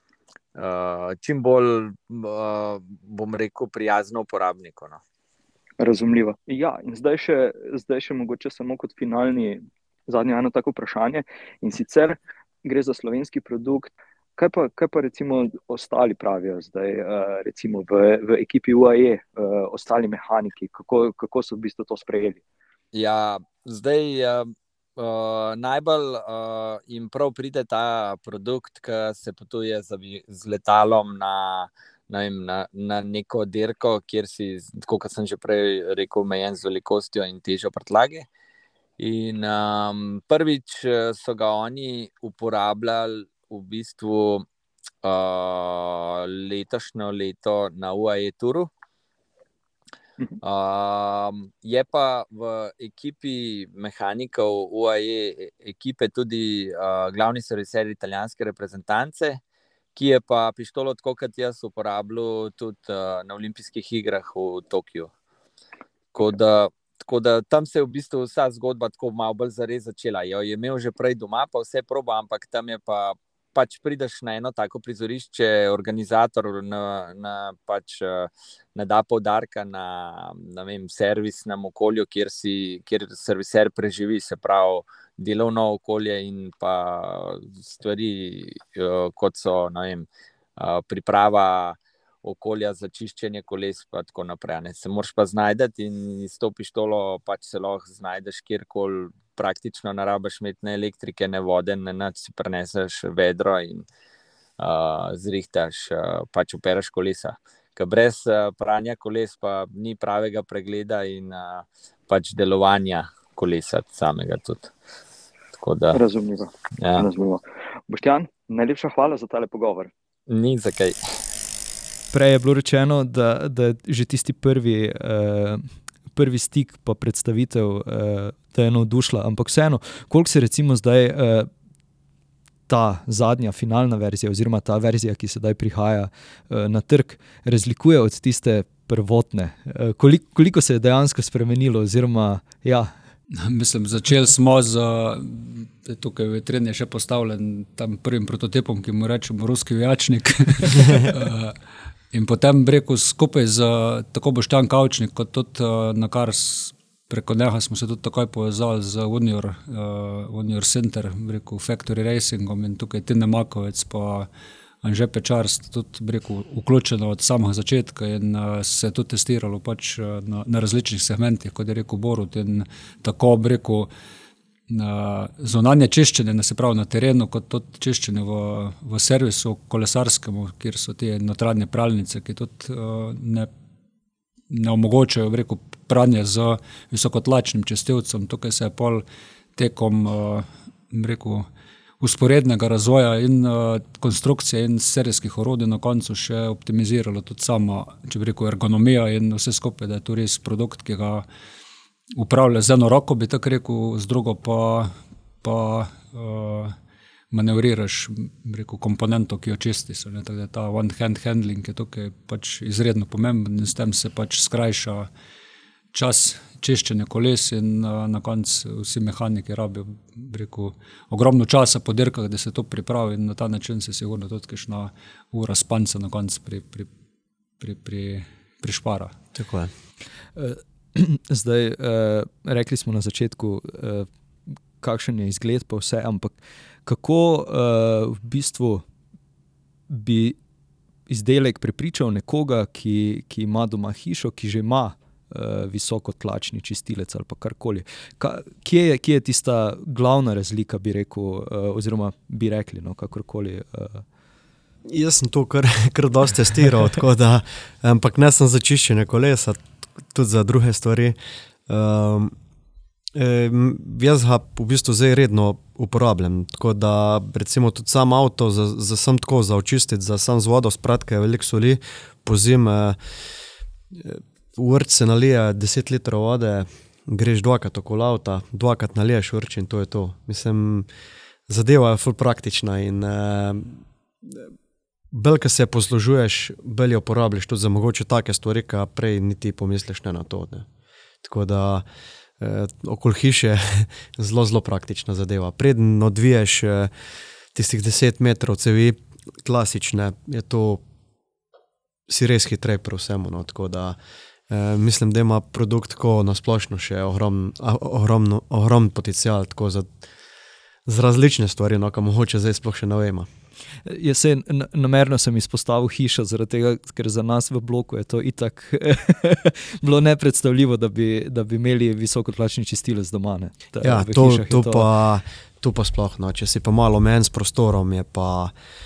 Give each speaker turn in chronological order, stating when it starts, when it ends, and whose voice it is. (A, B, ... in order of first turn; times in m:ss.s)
0:00.6-0:05.0 A
0:05.8-0:22.4 B
0:22.9-0:38.3 A
0:39.0-0:44.5 A
0:45.0-0:48.7 A
0:50.4-0:59.4 A
1:00.0-1:05.1 A
1:06.1-1:43.9 A
1:44.6-1:54.7 A
1:55.6-1:56.0 A
1:55.9-1:59.9 B
1:56.8-1:57.1 A
2:00.3-2:01.0 A
2:02.1-2:11.5 C
2:12.7-2:22.9 C
2:23.3-2:31.6 D
2:32.1-2:44.3 D
2:44.8-2:53.9 D
2:54.7-3:03.5 D
3:04.5-3:09.0 D
3:09.6-3:11.5 D
3:12.0-3:21.2 D
3:22.2-3:24.9 D
3:25.4-3:26.8 D
3:27.3-3:35.1 D
3:35.9-3:46.9 D
3:47.6-3:49.2 D
3:49.3-3:49.7 E
3:50.4-3:54.1 C
3:54.8-3:58.9 C
3:59.9-4:00.4 C
4:01.1-4:14.1 C
4:14.9-4:21.2 E
4:21.7-4:22.3 E
4:23.2-4:33.0 E
4:33.9-4:40.9 E
4:41.5-4:44.4 E
4:45.1-4:50.7 E
4:51.2-4:51.9 E
4:52.4-4:56.9 E
4:57.5-5:00.8 E
5:02.1-5:04.0 E
5:04.5-5:09.9 E
5:10.9-5:13.3 E
5:13.9-5:24.9 C
5:23.8-5:28.5 E